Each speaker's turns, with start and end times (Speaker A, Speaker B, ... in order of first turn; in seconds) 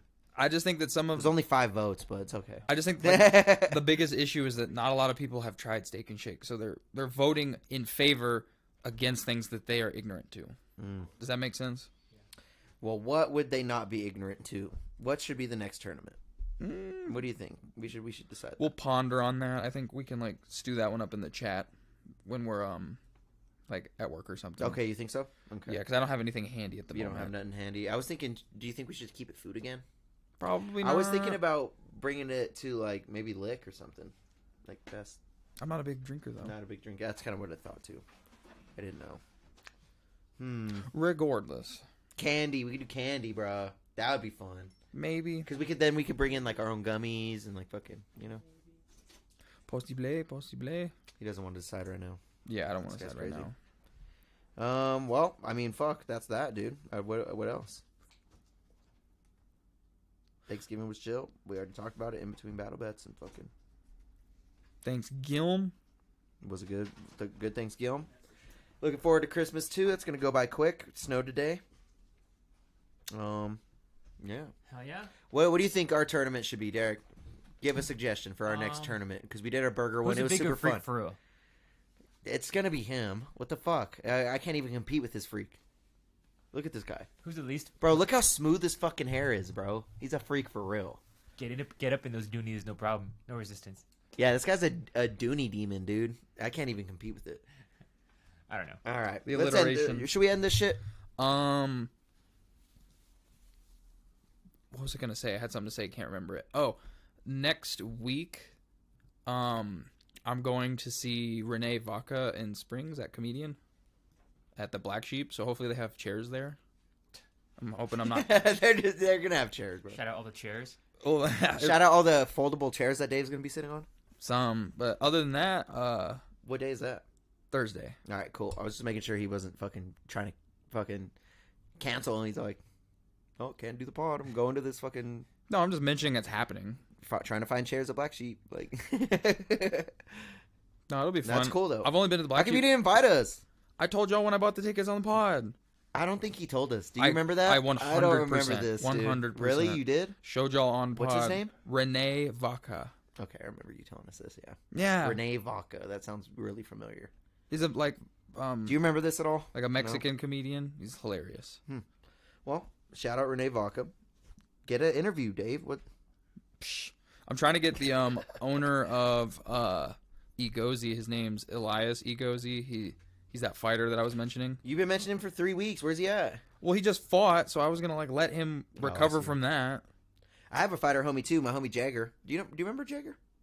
Speaker A: 0.3-1.3, 2.7-10.6, 11.2-11.9, 16.6-17.2, 18.6-21.7, 22.2-23.0, 23.7-24.8, 25.7-27.3, 30.4-31.4, 35.6-36.5, 40.9-41.8, 44.9-45.5, 49.6-50.9, 52.5-53.5, 64.8-65.7, 99.2-100.1, 101.2-101.9, 104.7-108.5, 109.2-113.6, 114.5-116.6, 117.6-118.4, 121.0-121.8, 124.2-126.2, 127.5-128.0, 135.5-136.8, 140.9-142.7, 143.8-145.5, 147.0-152.9, 154.7-155.2, 157.5-158.8, 159.5-161.6, 166.6-174.6, 176.6-179.8
Speaker B: 1.1-3.9, 10.8-11.1, 12.8-16.2, 17.1-18.7, 24.6-25.8, 26.9-29.8, 30.8-34.1, 34.6-35.2, 36.4-38.0, 38.8-39.2, 40.4-40.9, 42.2-44.7, 45.4-48.4, 51.2-52.2, 52.8-53.5, 54.6-57.8, 60.5-63.5, 66.4-68.1, 68.8-71.6, 73.1-73.6, 74.2-74.5, 75.3-77.0, 77.6-80.8, 82.2-85.6, 86.5-87.1, 87.8-91.0, 94.2-97.4, 98.8-100.8, 118.0-120.0, 121.6-123.9, 126.4-127.0, 128.1-131.1, 131.8-132.6, 133.4-135.3, 137.0-140.0, 141.2-143.4, 145.9-150.1, 150.9-151.5, 153.2-157.1, 158.7-160.0, 162.4-163.9, 164.6-165.8, 174.6-176.4, 178.8-179.3, 180.5-183.2
Speaker C: 74.7-75.1, 78.5-79.0, 80.0-81.2, 87.2-88.0, 91.4-93.8, 98.5-98.8, 119.9-120.8